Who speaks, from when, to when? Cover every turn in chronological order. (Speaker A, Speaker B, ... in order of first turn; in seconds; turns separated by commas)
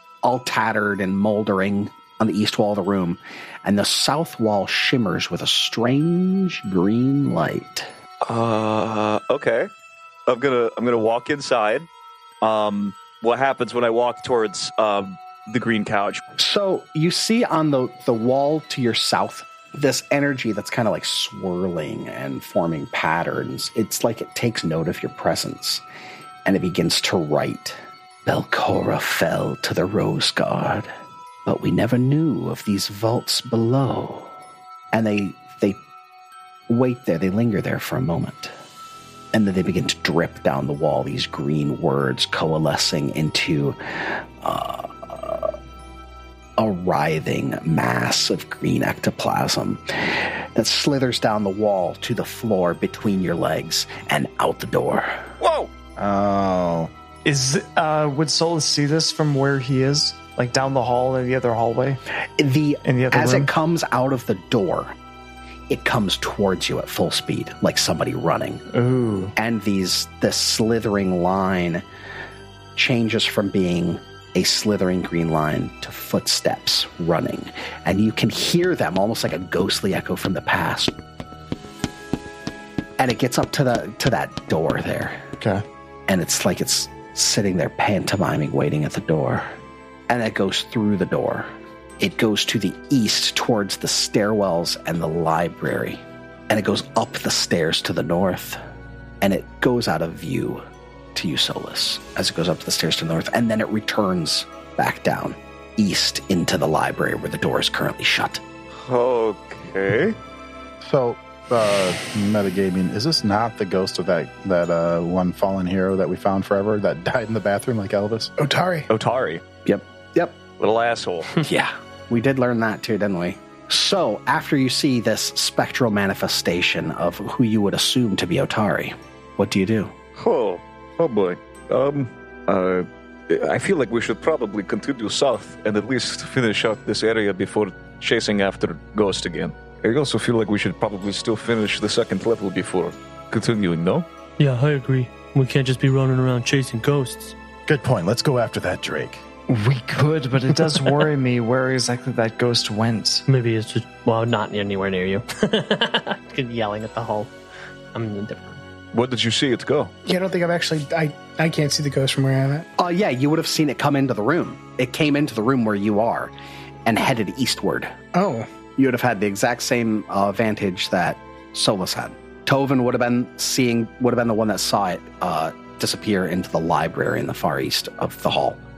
Speaker A: 0.2-7.9, Speaker B: 8.2-9.7, Speaker B: 10.3-11.9, Speaker B: 12.4-16.2, Speaker A: 16.4-25.8, Speaker A: 26.4-30.9, Speaker A: 31.4-34.3, Speaker A: 34.9-35.8, Speaker A: 36.7-38.5, Speaker A: 39.3-45.5, Speaker A: 46.6-55.2, Speaker B: 55.4-55.7, Speaker C: 56.0-56.9, Speaker D: 57.2-62.0, Speaker A: 62.4-64.9, Speaker D: 62.8-63.5, Speaker A: 65.7-68.6, Speaker D: 68.7-69.3, Speaker A: 69.4-71.8, Speaker A: 72.8-81.0, Speaker A: 83.0-85.3, Speaker A: 86.1-89.4, Speaker A: 90.1-91.5, Speaker A: 92.0-98.6, Speaker A: 99.2-100.6, Speaker A: 101.2-108.4, Speaker B: 108.8-110.2, Speaker C: 110.8-118.3, Speaker E: 118.4-118.9, Speaker B: 118.9-119.4, Speaker A: 119.7-120.4, Speaker B: 120.6-121.3, Speaker A: 121.4-129.9, Speaker B: 130.2-144.1, Speaker F: 144.4-147.3, Speaker C: 147.7-149.2, Speaker D: 149.5-153.2, Speaker F: 153.3-157.3, Speaker F: 157.9-158.6, Speaker B: 158.9-159.9, Speaker E: 160.1-162.7, Speaker A: 162.8-166.3, Speaker A: 166.9-167.9, Speaker E: 168.1-168.5, Speaker A: 168.8-178.6